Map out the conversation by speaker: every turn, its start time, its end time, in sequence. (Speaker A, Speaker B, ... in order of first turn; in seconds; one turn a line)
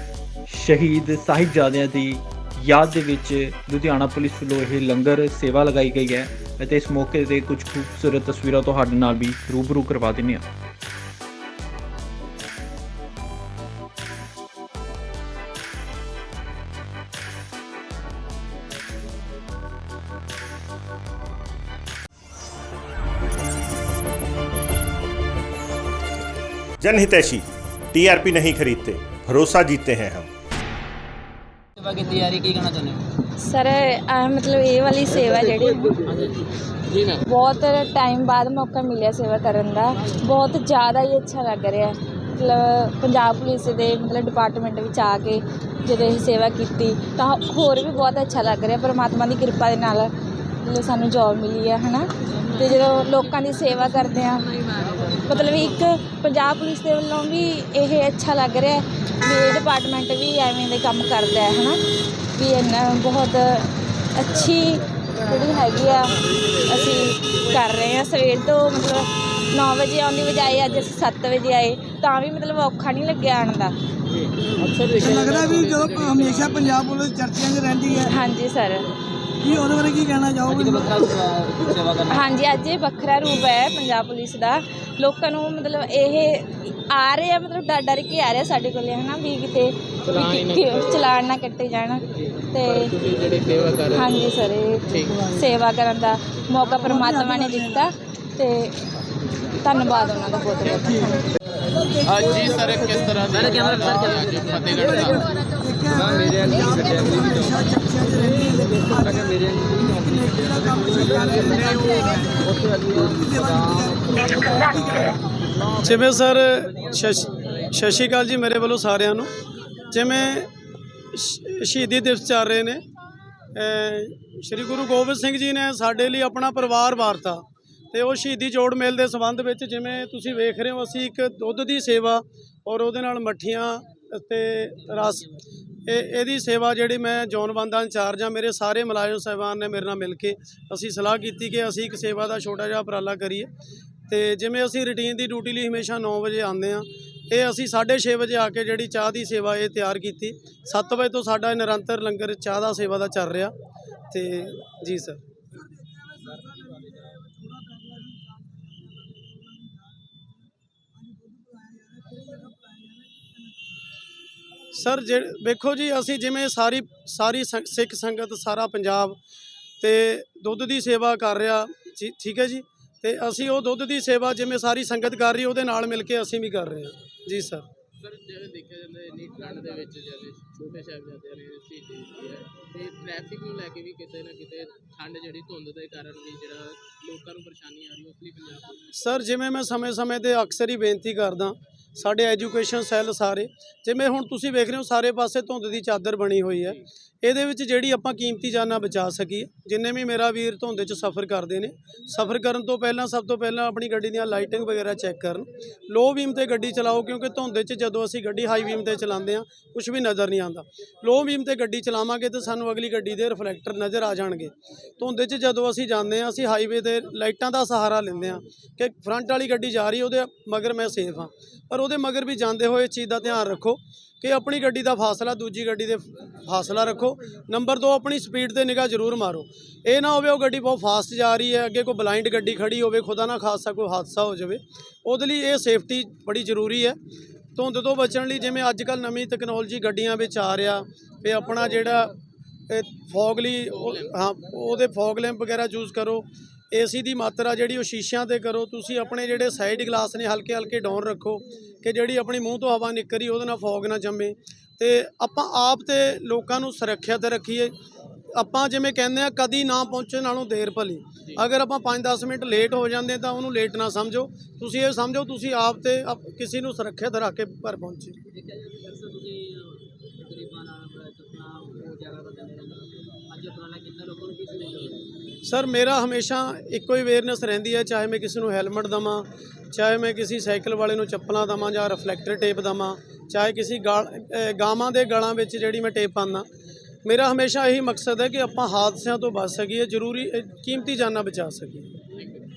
Speaker A: 0.5-10.5
Speaker B: 26.8-30.3
Speaker C: 31.8-33.0
Speaker D: 33.4-36.1
Speaker D: 37.2-50.1
Speaker D: 50.6-54.6
Speaker D: 55.3-61.8
Speaker D: 62.4-73.7
Speaker E: 74.2-76.7
Speaker F: 75.0-78.1
Speaker D: 78.1-78.9
Speaker F: 79.4-80.9
Speaker C: 80.5-82.2
Speaker D: 82.1-93.0
Speaker E: 90.1-91.1
Speaker E: 92.7-94.3
Speaker D: 93.9-98.8
Speaker E: 94.9-95.2
Speaker F: 96.9-97.9
Speaker D: 99.6-101.2
Speaker E: 102.0-105.3
Speaker C: 103.4-105.0
Speaker F: 105.6-115.2
Speaker G: 115.8-119.3
Speaker G: 119.9-120.5
Speaker G: 121.1-122.8
Speaker G: 123.5-135.3
Speaker G: 135.9-143.5
Speaker G: 144.1-153.5
Speaker G: 154.1-155.2
Speaker F: 155.5-160.4
Speaker F: 160.9-163.7
Speaker G: 164.7-169.2
Speaker G: 169.8-177.7
Speaker E: 178.0-188.8
Speaker G: 188.9-237.0
Speaker G: 237.6-242.1
Speaker G: 242.7-257.7
Speaker G: 258.3-268.2
Speaker C: 268.3-275.0
Speaker G: 275.4-286.5
Speaker G: 287.1-291.9